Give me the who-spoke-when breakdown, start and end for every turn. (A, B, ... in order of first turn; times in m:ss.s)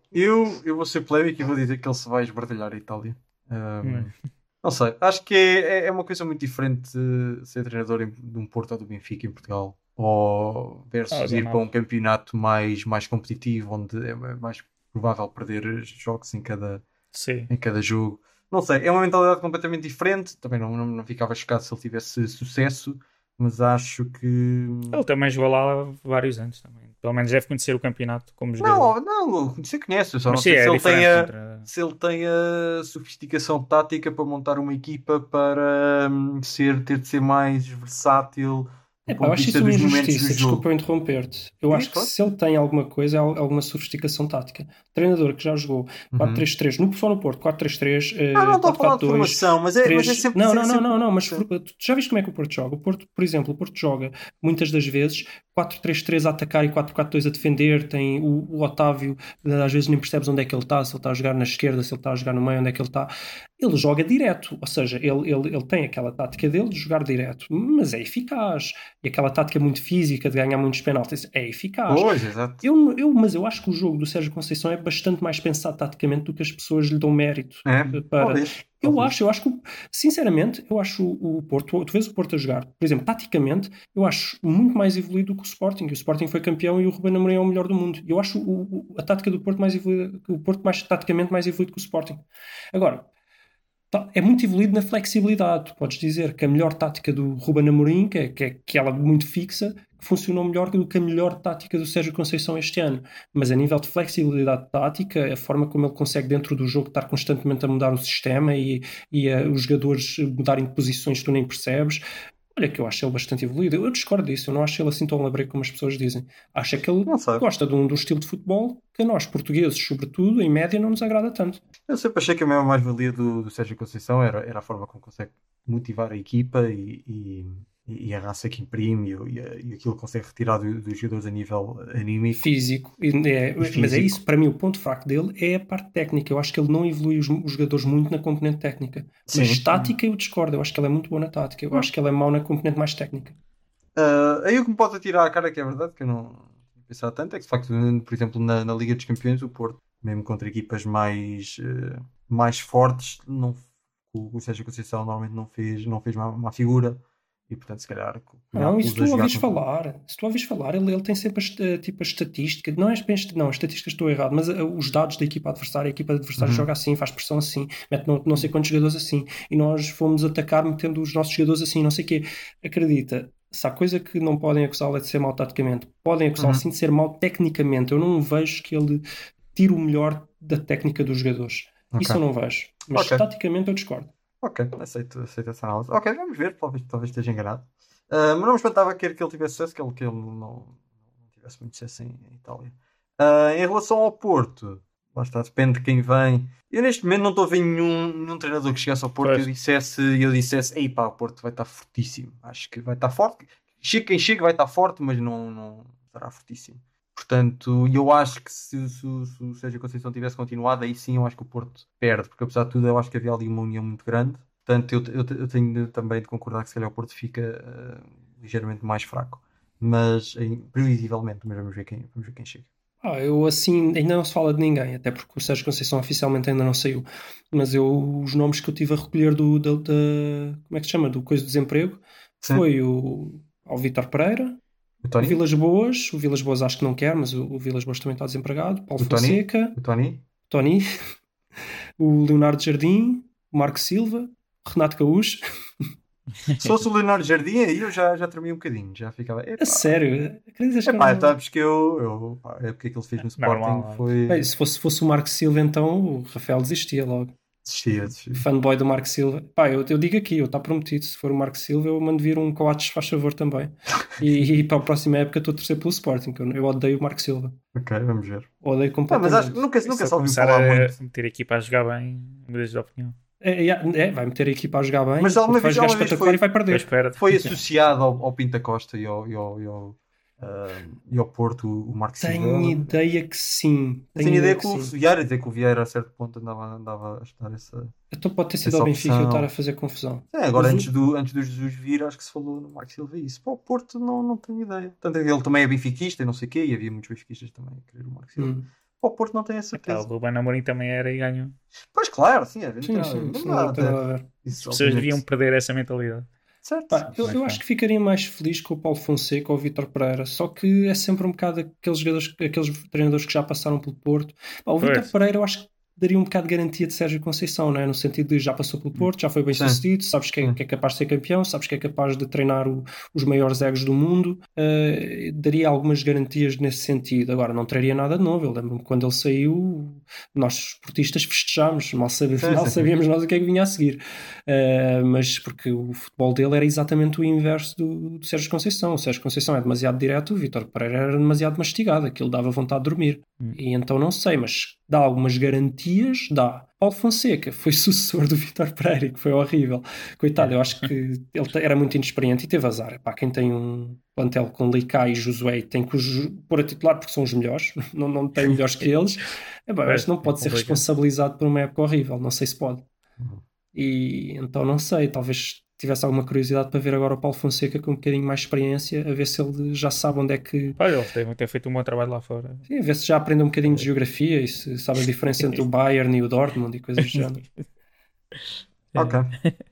0:00.1-0:04.1 A
0:03.8-0:04.1 B
0:04.6-0:16.8 A
0:11.1-0:11.6 B
0:17.1-0:17.5 B
0:17.5-0:25.0 A
0:24.9-0:28.9 B
0:28.6-0:40.6 A
0:30.3-0:31.7 B
0:39.1-1:33.1 C
0:41.7-0:42.1 A
0:46.1-0:46.4 A
0:48.3-0:51.4 A
1:11.9-1:12.6 A
1:17.6-1:19.1 A
1:33.9-2:01.6 C
1:57.1-1:57.4 A
2:01.9-2:12.5 A
2:12.4-2:23.4 C
2:13.6-2:14.2 A
2:19.3-2:19.6 A
2:24.0-2:39.6 A
2:38.6-2:59.0 C
2:46.4-2:46.7 A
2:56.4-2:56.6 A
2:59.6-3:04.1 C
3:01.9-3:02.2 A
3:02.9-3:03.2 A
3:04.4-3:10.8 A
3:11.4-3:42.7 A
3:43.0-3:54.6 C
3:52.4-3:52.6 A
3:55.0-3:55.4 A
3:55.2-3:59.8 C
3:59.0-4:00.2 A
4:00.5-4:00.8 C
4:02.0-4:05.4 C
4:06.6-4:10.0 A
4:09.6-4:11.3 C
4:10.9-4:14.5 A
4:13.4-4:14.1 B
4:14.3-4:17.3 C
4:17.6-4:18.4 A
4:18.3-4:27.6 C
4:27.7-4:28.5 A
4:28.6-4:29.6 C
4:29.1-4:31.0 A
4:29.8-4:33.1 B
4:33.4-4:36.9 C
4:35.2-4:36.4 A
4:36.7-4:37.6 B
4:37.2-4:42.9 A
4:42.2-4:44.9 C
4:44.2-4:47.9 A
4:48.1-4:50.9 C
4:48.6-4:49.5 A
4:50.3-5:00.0 A
4:58.4-4:58.6 C
4:59.7-5:01.6 B
5:01.9-5:05.2 A
5:02.8-5:04.3 C
5:04.6-5:06.3 B
5:06.6-5:07.2 A
5:06.9-6:02.9 C
5:07.2-5:07.6 B
5:14.8-5:15.1 B
5:19.5-5:19.8 A
5:32.4-5:32.9 A
5:59.8-6:00.8 B
6:03.7-6:10.8 C
6:10.8-6:12.6 B
6:12.7-6:17.4 C
6:17.0-6:17.3 B
6:18.9-6:19.3 A
6:19.0-6:19.5 B